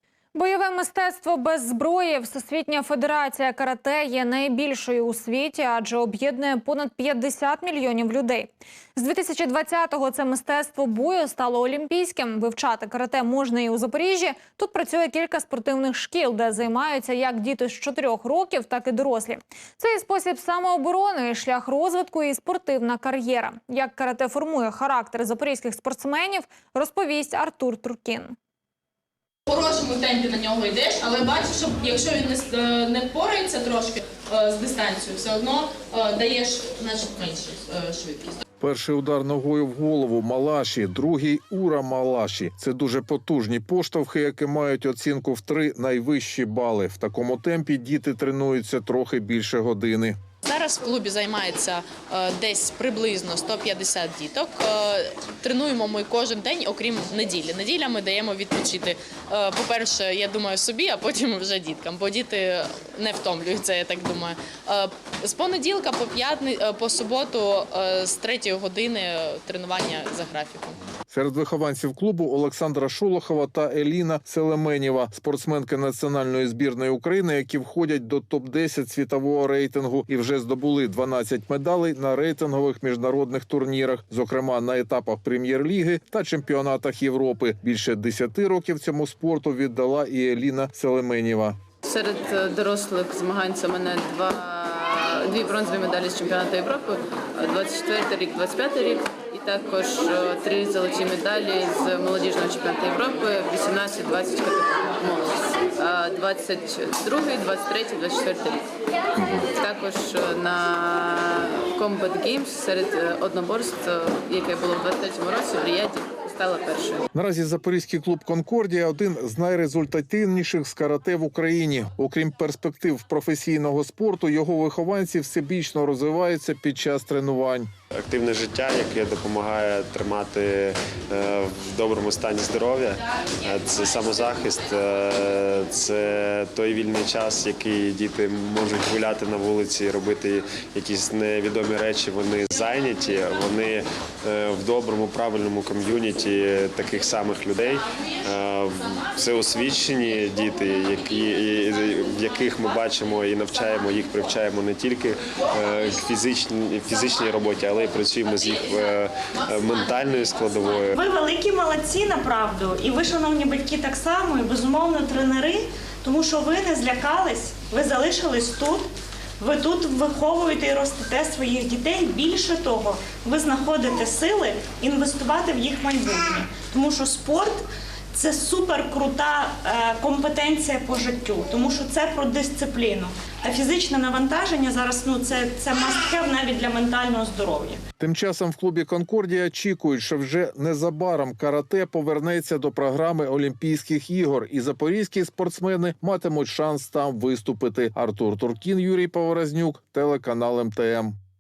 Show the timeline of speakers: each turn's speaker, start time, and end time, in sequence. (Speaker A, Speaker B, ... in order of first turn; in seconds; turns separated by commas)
Speaker A: 0.3-28.4, Speaker B: 29.5-38.4, Speaker C: 38.6-50.2, Speaker B: 50.5-70.8, Speaker C: 71.1-91.6, Speaker D: 91.8-108.7, Speaker D: 109.5-117.0, Speaker C: 117.1-127.7, Speaker E: 128.0-160.9, Speaker F: 160.9-187.8, Speaker C: 188.0-201.2